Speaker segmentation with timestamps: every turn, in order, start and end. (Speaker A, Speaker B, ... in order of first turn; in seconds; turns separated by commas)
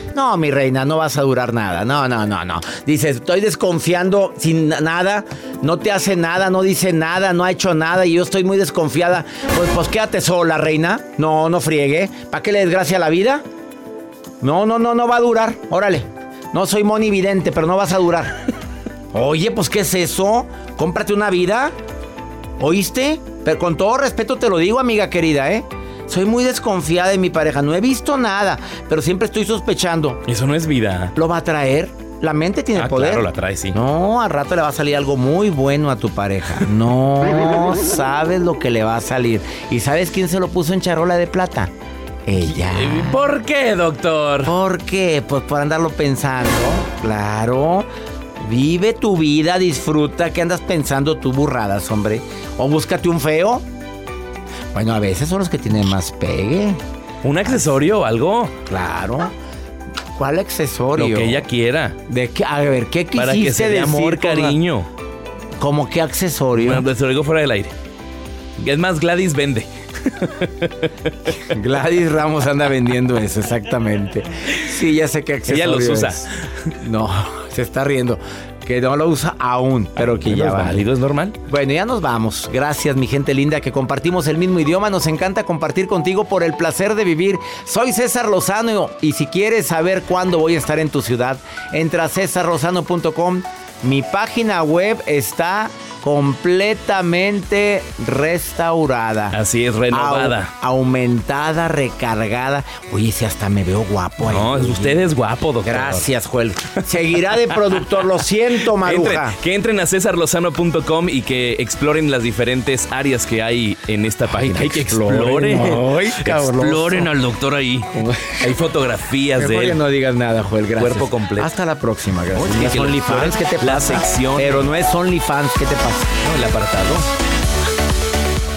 Speaker A: 0.1-13.4, Speaker A: 14.4-18.4, Speaker A: 19.1-21.7, Speaker A: 22.6-30.2, Speaker B: 30.3-31.1, Speaker A: 31.2-41.7, Speaker B: 32.8-33.8, Speaker A: 42.3-43.2, Speaker B: 42.5-44.5, Speaker A: 44.5-47.9, Speaker A: 48.4-53.7, Speaker A: 54.7-56.8, Speaker B: 57.2-58.5, Speaker A: 57.5-57.9, Speaker A: 58.7-59.3, Speaker A: 60.1-61.5, Speaker B: 61.0-62.0, Speaker A: 62.1-64.6, Speaker B: 63.2-64.9, Speaker A: 65.6-66.8, Speaker B: 66.6-67.7, Speaker B: 68.6-70.9, Speaker A: 71.5-76.3, Speaker B: 75.5-76.7, Speaker A: 76.8-80.8, Speaker B: 80.0-81.4, Speaker A: 81.5-99.4, Speaker B: 99.3-100.5, Speaker A: 99.9-105.0, Speaker B: 104.2-106.0, Speaker A: 105.6-109.4, Speaker B: 108.8-119.8, Speaker A: 114.4-117.1, Speaker A: 117.9-118.5, Speaker A: 119.4-126.2, Speaker B: 120.8-121.5, Speaker B: 122.3-124.7, Speaker B: 126.2-127.1